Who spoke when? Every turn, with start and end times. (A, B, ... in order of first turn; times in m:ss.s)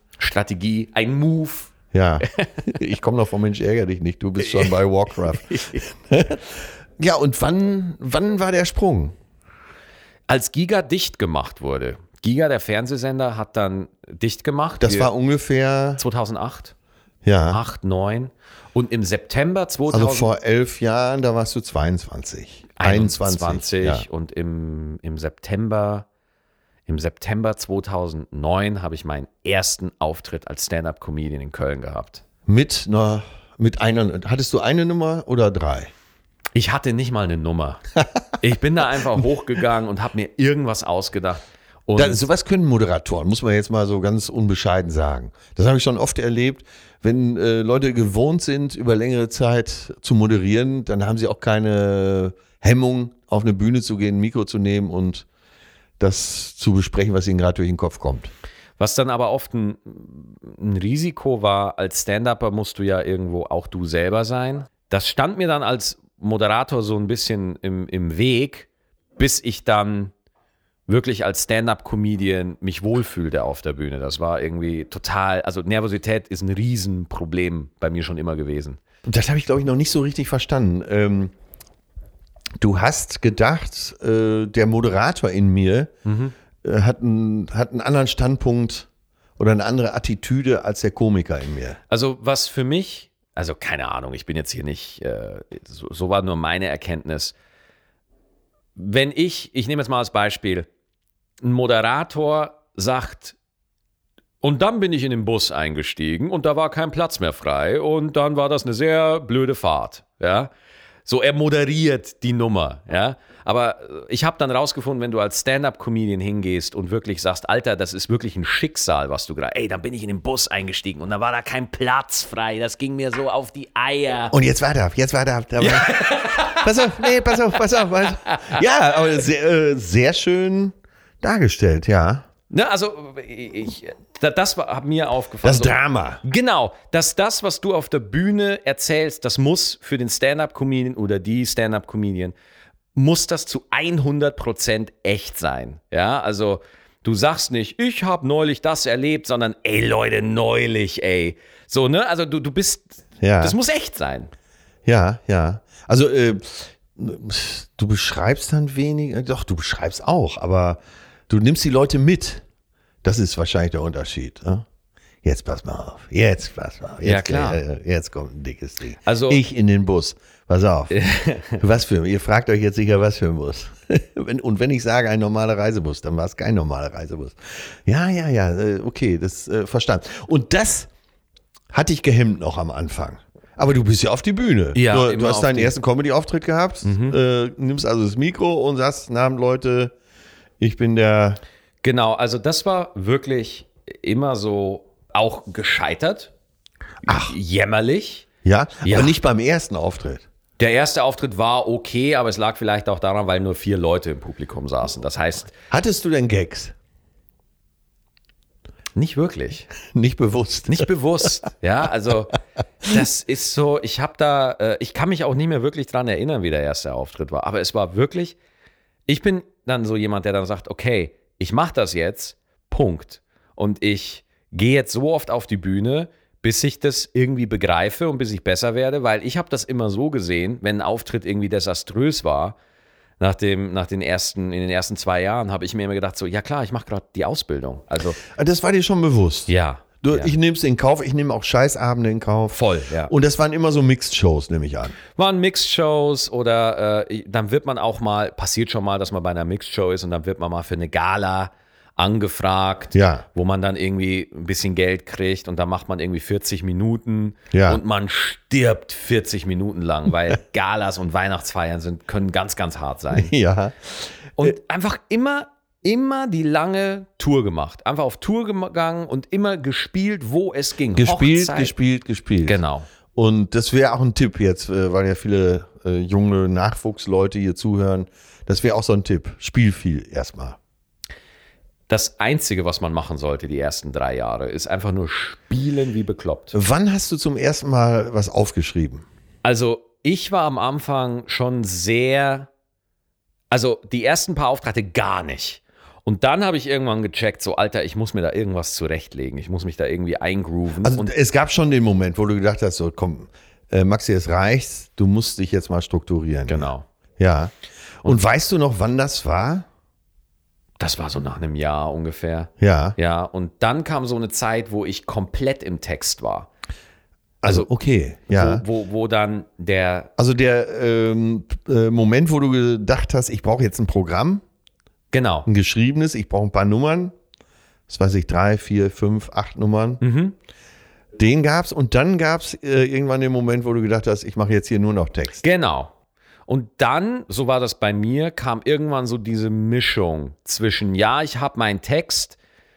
0:00.2-0:02.5 A
0:01.9-0:09.1 B
0:04.4-0:04.8 A
0:05.3-0:05.8 A
0:10.3-0:15.1 A
0:14.8-0:16.0 B
0:16.0-0:16.7 A
0:17.2-0:17.6 B
0:17.5-0:20.3 A
0:19.9-0:24.0 B
0:22.8-0:26.1 A
0:26.9-0:32.2 A
0:32.5-0:35.9 B
0:36.6-0:37.8 A
0:38.4-0:42.2 A
0:42.0-0:55.3 B
0:56.0-0:58.3 B
0:58.8-1:10.1 A
1:10.9-1:18.8 A
1:19.1-1:21.3 B
1:22.6-1:25.9 B
1:26.0-1:26.3 A
1:26.6-1:31.8 B
1:31.9-1:37.4 A
1:38.8-1:40.7 A
1:41.4-1:43.4 A
1:44.4-1:50.5 A
1:51.1-2:04.4 A
2:04.3-2:12.3 B
2:05.6-2:08.6 A
2:12.5-2:22.3 A
2:15.4-2:16.2 B
2:23.0-2:34.3 A
2:33.2-2:33.6 B
2:34.9-2:42.4 B
2:43.0-2:44.6 B
2:45.2-2:51.0 B
2:47.0-2:47.6 A
2:49.0-2:49.4 A
2:50.9-2:51.6 A
2:51.6-3:00.9 B
3:01.7-3:09.9 B
3:04.7-3:05.7 A
3:06.8-3:07.2 A
3:10.6-3:11.4 B
3:11.8-3:16.3 A
3:17.0-3:17.4 B
3:17.1-3:18.3 A
3:18.4-3:20.2 B
3:18.8-3:19.1 A
3:20.6-3:25.5 A
3:25.7-3:26.7 B
3:29.0-3:29.7 A
3:29.9-3:31.3 B
3:30.7-3:38.4 A
3:39.1-3:52.6 A
3:53.2-3:58.2 A
3:58.3-4:05.0 B
3:59.5-4:00.3 A
4:02.5-4:03.1 A
4:05.1-4:23.3 A
4:12.9-4:13.2 B
4:17.5-4:17.8 B
4:23.1-4:24.5 B
4:24.4-4:31.8 A
4:31.0-4:32.6 B
4:32.4-4:32.9 A
4:33.1-4:40.6 B
4:41.9-4:46.6 A
4:46.5-4:49.0 B
4:49.4-4:52.5 A
4:53.5-5:01.1 A
5:00.8-5:07.5 B
5:06.5-5:06.8 A
5:08.0-5:09.7 B
5:10.8-5:16.5 A
5:12.6-5:13.0 B
5:17.4-5:18.6 B
5:18.3-5:20.1 A
5:20.2-5:24.4 B
5:25.1-5:25.5 A
5:25.5-5:27.1 B
5:27.9-5:30.0 B
5:30.0-5:30.4 A
5:31.2-5:35.4 B
5:35.4-5:35.9 A
5:36.5-5:42.4 A